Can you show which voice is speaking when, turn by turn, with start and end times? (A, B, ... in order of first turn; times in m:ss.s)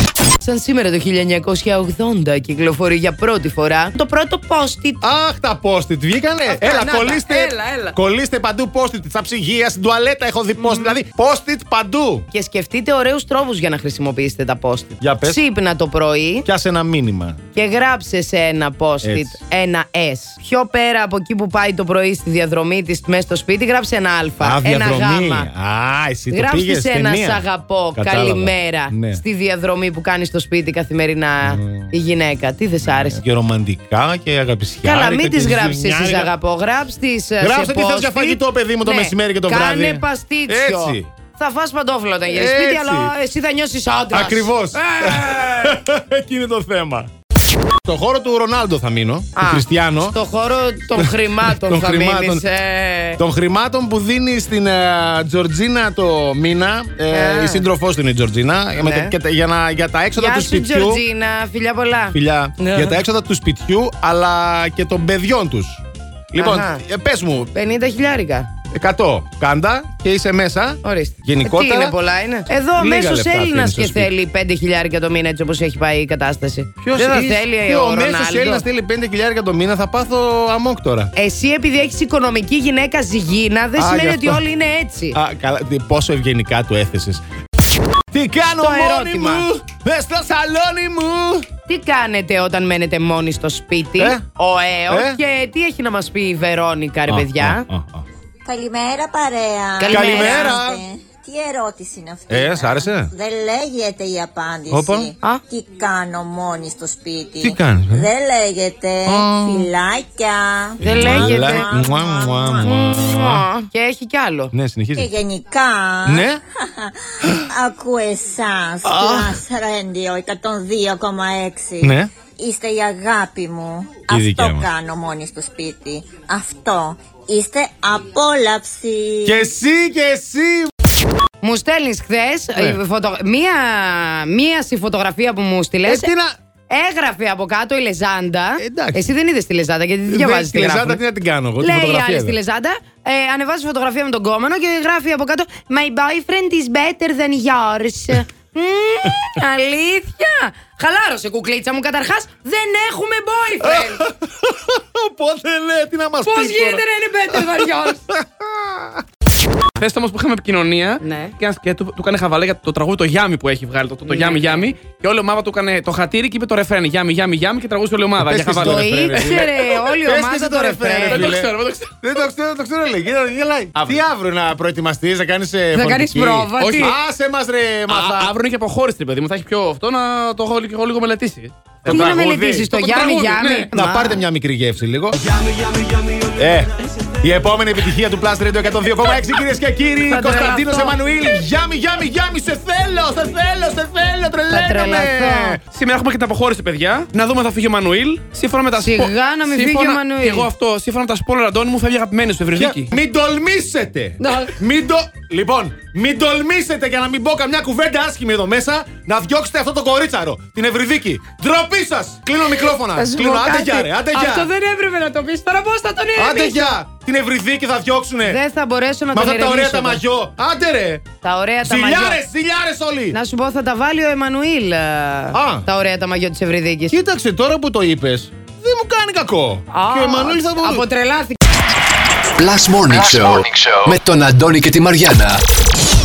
0:00.4-0:05.0 A
0:05.0-0:12.3 B
0:06.5-0:08.0 A
0:10.6-0:11.0 A
0:12.3-0:16.4 A
0:15.0-0:15.4 B
0:16.4-0:17.4 B
0:17.5-0:25.5 A
0:19.0-0:19.3 B
0:24.4-0:27.4 B
0:26.3-0:33.2 A
0:28.0-0:29.2 B
0:31.4-0:31.9 B
0:32.9-0:36.3 B
0:34.8-0:44.5 A
0:37.4-0:41.1 B
0:42.3-0:43.1 B
0:44.1-0:47.1 B
0:45.0-0:45.5 C
0:47.8-0:50.2 B
0:49.4-0:53.2 A
0:51.0-0:52.4 B
0:53.2-1:01.0 B
0:57.1-0:57.6 A
0:58.8-0:59.1 A
1:00.2-1:02.9 A
1:02.1-1:07.5 B
1:06.4-1:06.8 A
1:07.5-1:08.5 A
1:08.7-1:11.9 B
1:10.8-1:18.6 A
1:12.8-1:14.1 B
1:16.8-1:21.1 B
1:21.2-1:25.2 A
1:23.8-1:24.4 B
1:25.1-1:27.2 B
1:28.1-1:31.4 B
1:28.6-1:29.5 A
1:31.7-1:37.6 A
1:34.0-1:34.2 B
1:34.9-1:35.2 B
1:37.1-1:38.0 B
1:38.4-1:52.7 D
1:39.8-1:40.6 A
1:39.9-1:40.8 B
1:42.3-1:43.1 B
1:44.7-1:45.1 B
1:47.4-1:48.1 B
1:49.0-1:49.7 B
1:50.8-1:51.7 A
1:50.8-1:53.5 B
1:52.6-1:54.5 A
1:54.5-1:55.1 B
1:55.0-2:09.5 D
1:56.0-1:56.4 B
1:58.8-1:59.4 B
2:01.8-2:02.1 B
2:04.1-2:04.7 B
2:09.2-2:10.7 B
2:11.4-2:16.1 A
2:15.8-2:16.4 B
2:16.7-2:21.0 A
2:18.6-2:19.0 B
2:20.1-2:22.4 B
2:21.6-2:34.0 A
2:33.6-2:39.0 B
2:36.2-2:38.0 A
2:39.8-2:49.8 C
2:41.0-2:41.3 A
2:44.1-2:44.6 A
2:48.2-2:58.3 B
2:48.6-2:51.3 A
2:51.0-2:51.9 C
2:55.7-2:56.9 A
2:56.6-2:56.9 C
2:57.9-3:02.2 C
3:01.8-3:02.7 B
3:01.9-3:04.2 A
3:02.7-3:03.7 C
3:03.7-3:05.2 B
3:06.3-3:15.6 B
3:10.1-3:11.0 A
3:14.5-3:15.6 A
3:15.7-3:22.9 C
3:18.8-3:20.5 A
3:22.5-3:34.5 B
3:24.2-3:24.5 A
3:32.7-3:36.7 A
3:36.2-3:38.4 B
3:38.2-3:40.0 A
3:39.1-3:41.0 B
3:41.2-3:42.2 A
3:41.6-3:43.2 B
3:43.1-3:47.0 A
3:45.3-3:45.7 B
3:46.9-3:50.8 B
3:49.7-3:51.4 A
3:52.3-3:55.4 E